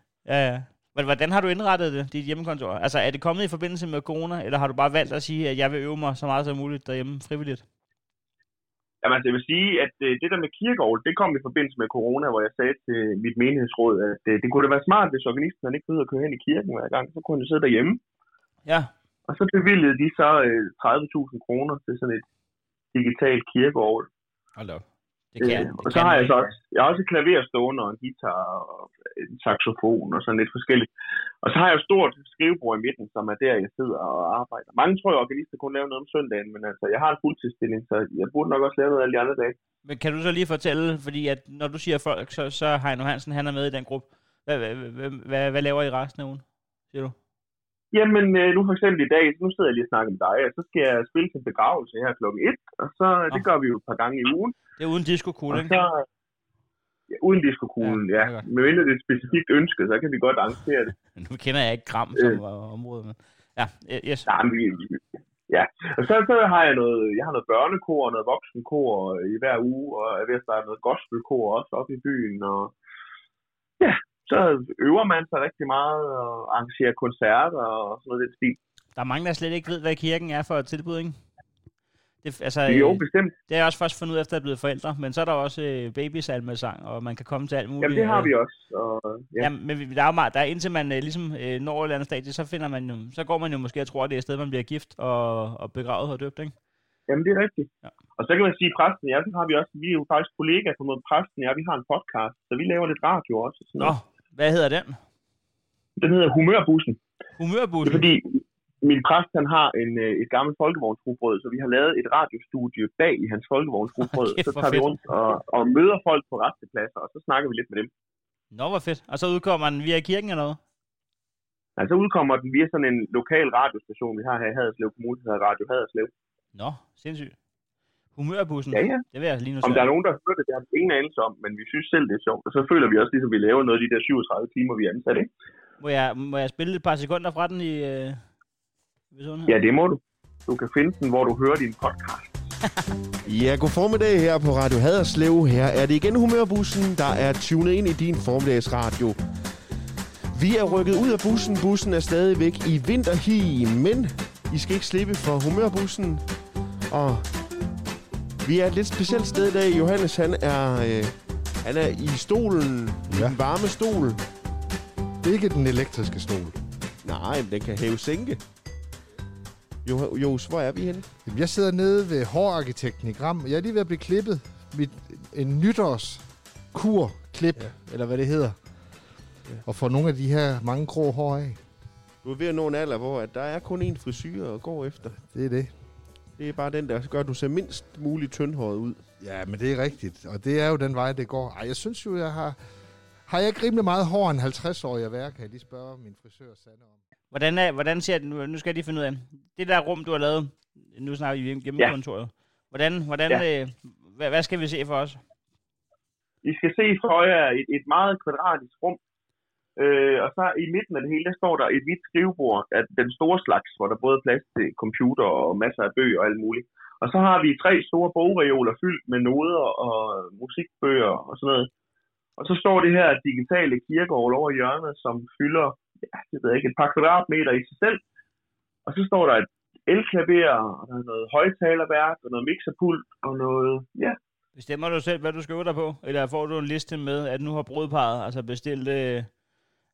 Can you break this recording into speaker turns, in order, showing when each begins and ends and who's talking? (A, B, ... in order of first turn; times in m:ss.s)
0:00.2-0:07.6 A
0:09.0-0:18.0 B
0:18.7-0:18.9 A
0:19.3-0:22.2 B
0:22.9-0:24.1 B
0:24.6-0:26.4 A
0:25.4-0:30.9 B
0:31.4-0:39.6 B
0:39.8-0:47.2 A
0:47.9-0:54.6 B
0:54.8-0:55.8 A
0:55.5-0:56.1 B
0:57.1-1:00.9 B
0:57.8-0:58.5 A
1:01.2-1:04.3 A
1:02.2-1:02.4 B
1:04.3-1:12.7 B
1:13.8-1:18.6 B
1:19.0-1:21.2 A
1:22.2-1:28.3 A
1:22.7-1:23.4 B
1:27.8-1:29.5 B
1:29.4-1:36.6 A
1:37.1-1:44.0 B
1:43.8-1:45.0 A
1:46.0-1:47.0 B
1:47.4-1:48.1 A
1:47.8-1:57.9 B
1:54.0-1:55.0 A
1:58.5-2:00.6 A
2:01.8-2:06.1 B
2:06.6-2:07.4 A
2:08.1-2:09.9 A
2:08.7-2:09.0 B
2:09.6-2:15.3 B
2:15.8-2:18.2 A
2:19.1-2:19.6 A
2:19.5-2:22.4 B
2:23.3-2:29.2 C
2:30.3-2:36.3 C
2:36.9-2:37.3 C
2:38.4-2:44.2 C
2:43.1-2:43.4 D
2:45.2-2:46.6 D
2:47.0-2:48.4 C
2:49.8-2:51.1 C
2:51.3-2:59.0 D
2:59.6-3:01.6 D
3:02.2-3:05.3 C
3:05.2-3:05.8 D
3:06.3-3:09.1 C
3:09.2-3:12.6 D
3:13.2-3:17.0 D
3:17.3-3:25.2 A
3:26.4-3:29.0 B
3:29.8-3:41.7 B
3:42.4-3:48.0 B
3:48.9-3:54.2 B
3:54.6-3:59.3 A